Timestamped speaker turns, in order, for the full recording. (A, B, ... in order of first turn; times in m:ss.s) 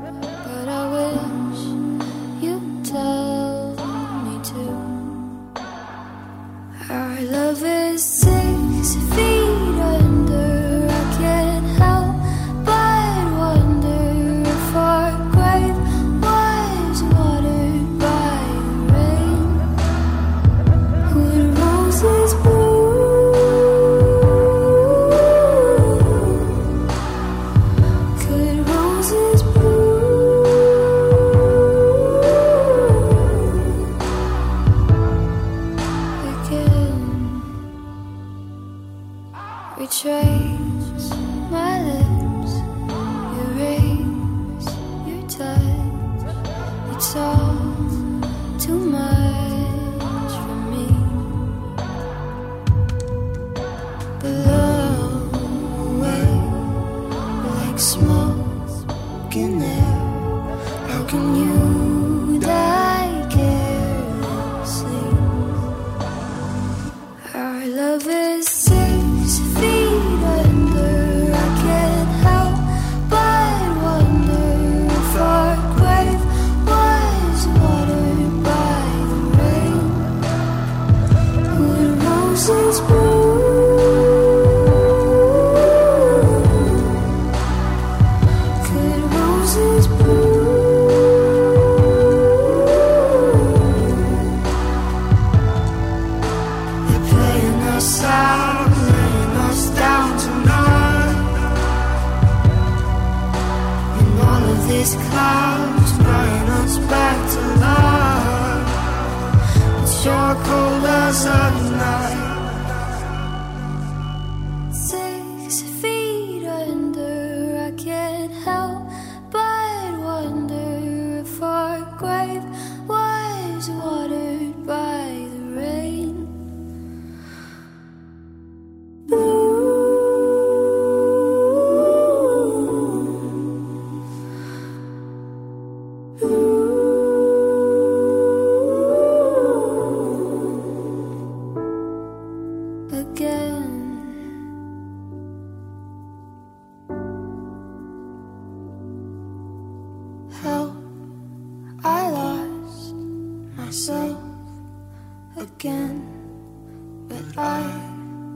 0:00.4-0:01.8 A
0:02.4-0:05.2 A
0:06.8-0:19.7 A
0:21.1-0:26.6 A
0:28.2-0:31.2 A
0:31.9-0:33.0 A
0:36.2-0:37.6 A
0:39.7-0:42.6 A
0:43.3-0:46.1 A
0:46.9-0:48.0 A
0:48.6-0:51.4 A
0:54.2-0:56.8 A
0:57.4-0:58.7 A
0:59.3-1:05.4 A
1:07.2-1:20.2 A
1:21.5-1:27.0 A
1:28.6-1:31.3 A
1:32.7-1:33.9 A
1:36.8-1:41.3 A
1:43.9-1:48.7 A
1:49.8-1:52.4 A
1:54.7-2:06.4 A
2:09.1-2:10.3 A
2:11.8-2:12.8 A
2:22.9-2:24.3 A
2:30.3-2:30.8 A
2:31.8-2:32.9 A
2:33.6-2:34.3 A
2:35.4-2:36.2 A
2:37.1-2:38.0 A